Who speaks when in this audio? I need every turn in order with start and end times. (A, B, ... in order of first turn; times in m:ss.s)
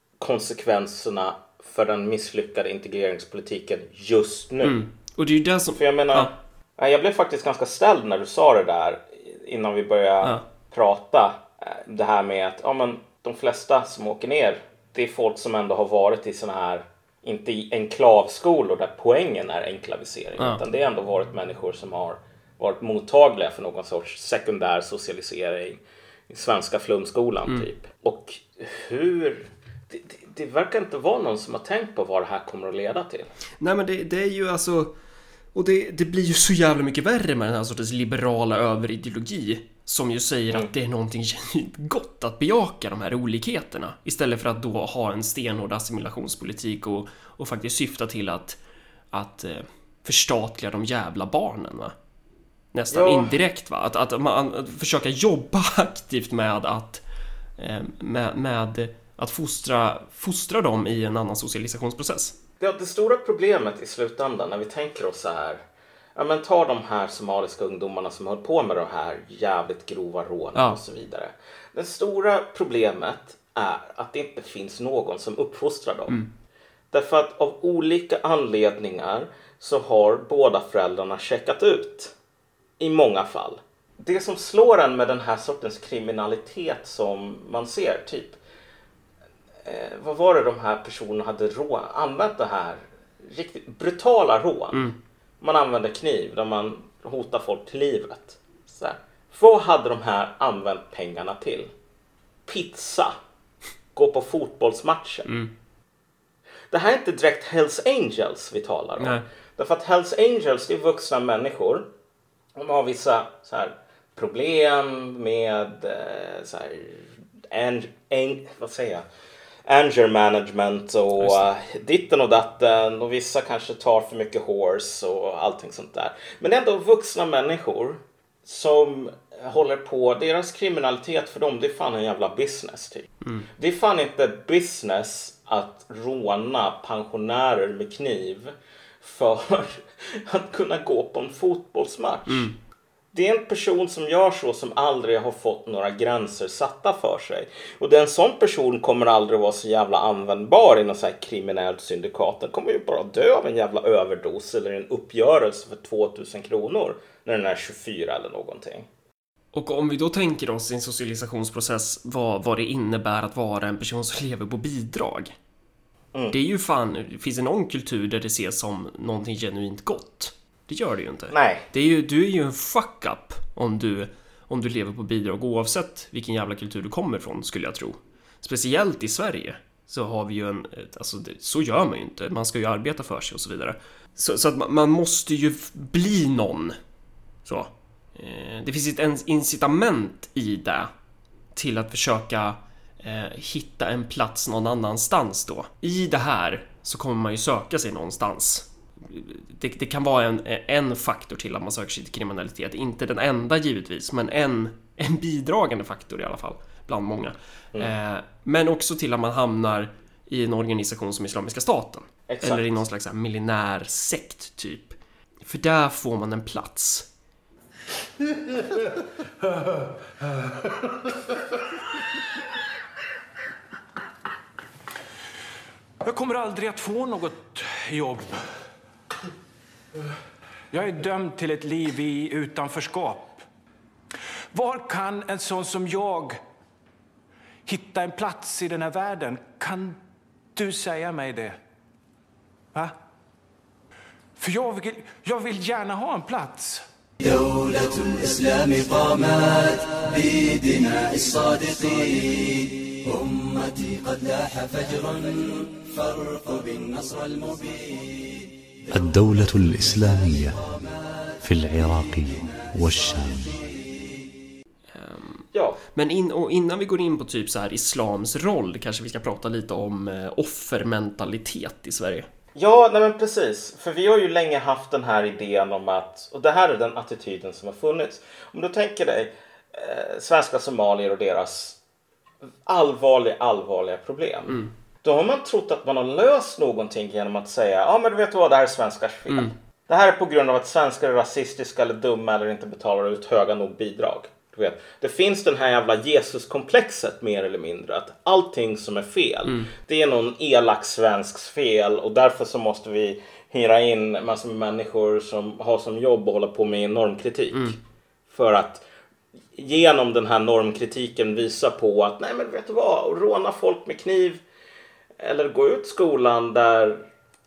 0:00.2-0:04.8 A
0:04.6-0:06.3 B
0:05.7-0:33.3 A
0:33.6-0:34.9 B
0:35.5-0:48.6 B
0:49.1-0:51.9 B
0:52.7-0:57.0 B
0:52.9-0:53.3 A
0:57.6-1:02.4 B
1:02.6-1:05.6 A
1:06.2-1:16.2 A
1:16.9-1:22.1 A
1:22.8-1:28.4 A
1:29.6-1:34.8 A
1:35.4-1:41.7 A
1:42.4-1:43.1 A
1:43.9-1:45.3 A
1:46.7-1:51.9 A
1:49.0-1:49.2 B
1:52.6-1:59.0 A
1:59.6-2:22.5 A
2:01.2-2:01.5 B
2:13.2-2:13.5 B
2:22.3-2:22.6 B
2:23.1-2:38.9 A
2:39.5-2:45.3 B
2:46.3-3:06.8 B
2:51.3-2:51.7 A
3:07.4-3:10.9 B
3:11.6-3:37.1 B
3:32.3-3:32.8 A
3:46.0-3:48.4 C
3:50.7-3:53.4 C
3:54.5-3:56.4 C
3:57.6-4:00.0 C
4:00.6-4:01.6 C
4:04.4-4:06.8 C
4:07.2-4:17.8 D
4:18.9-4:20.6 E
4:21.4-4:23.6 E
4:24.9-4:32.3 B
4:25.5-4:25.8 A
4:32.6-4:41.8 A
4:42.6-5:07.8 A
4:59.4-4:59.7 B
5:08.3-5:08.8 A
5:09.5-5:14.4 A
5:15.2-5:17.1 A